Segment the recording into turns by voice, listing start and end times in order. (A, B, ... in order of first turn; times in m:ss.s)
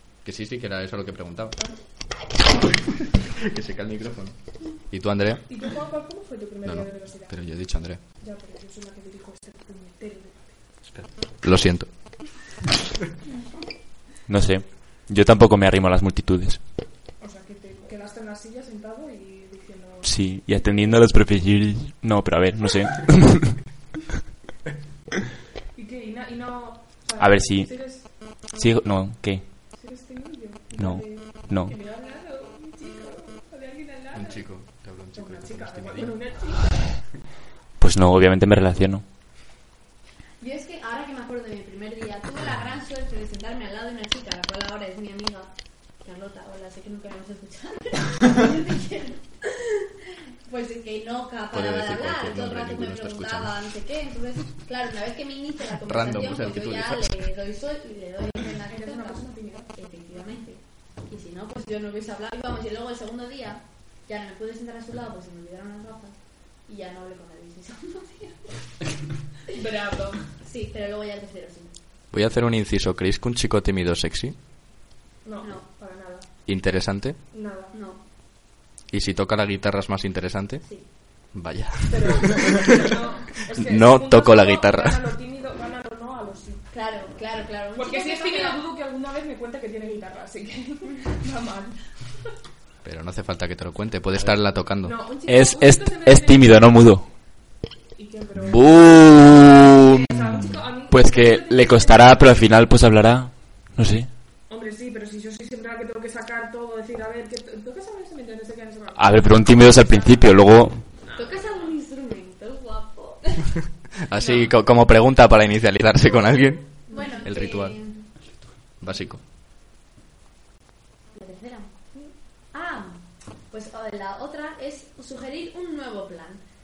0:00.2-0:01.6 A
0:03.3-0:04.3 A
0:04.9-0:05.4 A
0:05.5-0:07.3 B
0:06.6-0:08.0 A
0:08.2-0:10.6 B
0:10.9-0:11.9 A
0:14.3-0:16.6 C
0:17.2-0:20.4 B
0:20.0-0:23.6 C
0:25.7-0:28.5 B
0:27.2-0:29.4 C
0:29.7-0:34.4 B
0:30.8-0:31.7 C
0:34.1-0:36.1 A
0:35.1-0:37.0 B
0:37.8-0:39.0 C
0:40.4-1:08.5 D
0:51.5-0:53.5 A
0:55.9-0:57.1 A
0:58.7-0:59.7 B
1:09.5-1:10.2 B
1:10.4-1:11.7 D
1:12.1-1:14.4 A
1:15.2-1:16.3 B
1:16.5-1:17.2 A
1:17.3-1:17.7 B
1:17.7-1:18.0 D
1:18.9-1:20.6 A
1:21.3-1:22.9 A
1:21.9-1:26.7 B
1:23.5-1:25.0 A
1:26.7-1:28.6 D
1:27.8-1:31.7 B
1:32.8-1:34.9 A
1:34.8-1:36.8 B
1:35.3-1:37.0 C
1:38.0-1:42.4 B
1:38.5-1:44.1 C
1:44.5-1:50.3 B
1:49.0-1:50.8 C
1:51.0-1:51.7 B
1:51.1-1:53.4 D
1:54.0-1:57.7 A
1:56.9-1:58.1 D
1:56.9-1:57.1 B
1:58.8-1:59.2 A
2:01.1-2:01.7 D
2:02.5-2:06.4 D